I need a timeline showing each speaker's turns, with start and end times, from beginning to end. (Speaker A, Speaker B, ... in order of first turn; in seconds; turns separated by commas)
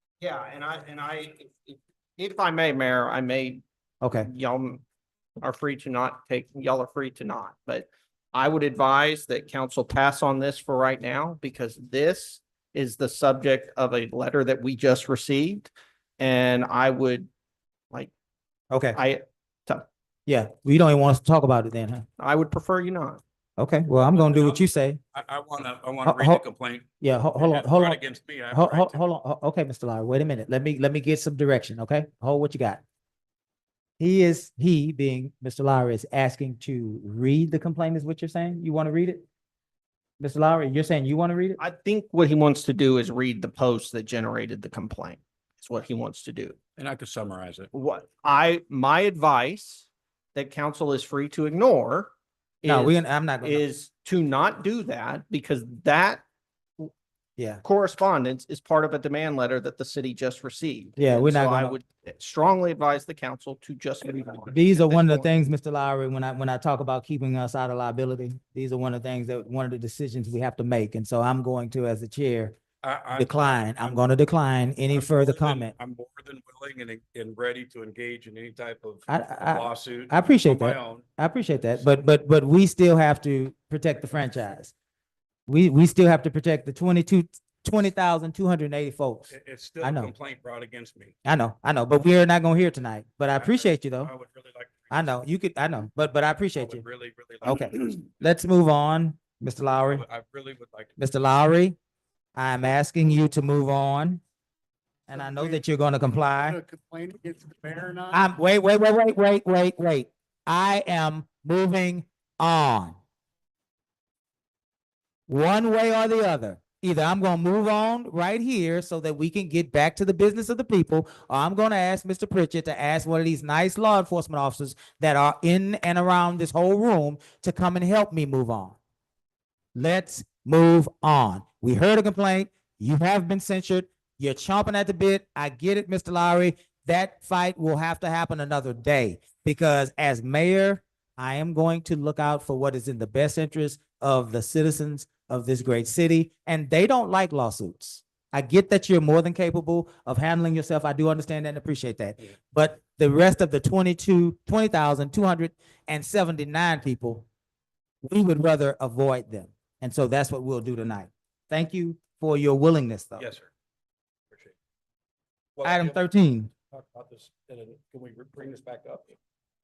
Speaker A: 0.2-3.6, Speaker B: 4.0-4.3, Speaker A: 4.3-4.8, Speaker A: 5.4-17.3, Speaker B: 18.7-19.0, Speaker A: 18.9-19.9, Speaker B: 20.3-22.1, Speaker A: 22.2-23.2, Speaker B: 23.6-25.0, Speaker C: 24.1-29.0, Speaker B: 26.0-26.4, Speaker B: 27.0-32.8, Speaker B: 34.0-39.2, Speaker B: 40.2-41.6, Speaker A: 41.6-46.5, Speaker C: 46.8-47.7, Speaker A: 47.7-52.1, Speaker A: 52.6-56.2, Speaker B: 52.6-53.6, Speaker A: 57.6-65.3, Speaker B: 61.0-61.8, Speaker B: 64.5-72.5, Speaker C: 72.8-74.1, Speaker B: 73.2-75.7, Speaker C: 74.9-81.1, Speaker B: 79.1-84.7, Speaker B: 85.5-90.1, Speaker C: 89.3-91.2, Speaker B: 91.2-94.1, Speaker C: 93.3-95.1, Speaker B: 94.9-96.8, Speaker C: 96.5-98.0, Speaker B: 97.4-100.0, Speaker C: 99.8-100.9, Speaker B: 101.0-101.8, Speaker B: 102.3-104.2, Speaker D: 105.1-105.6, Speaker B: 105.1-106.6, Speaker D: 106.4-108.3, Speaker B: 108.1-113.0, Speaker B: 115.3-128.8, Speaker B: 129.7-157.2, Speaker B: 158.0-163.3, Speaker C: 163.2-163.5, Speaker C: 164.3-164.6, Speaker C: 165.6-166.0, Speaker B: 165.6-166.5, Speaker C: 166.7-169.2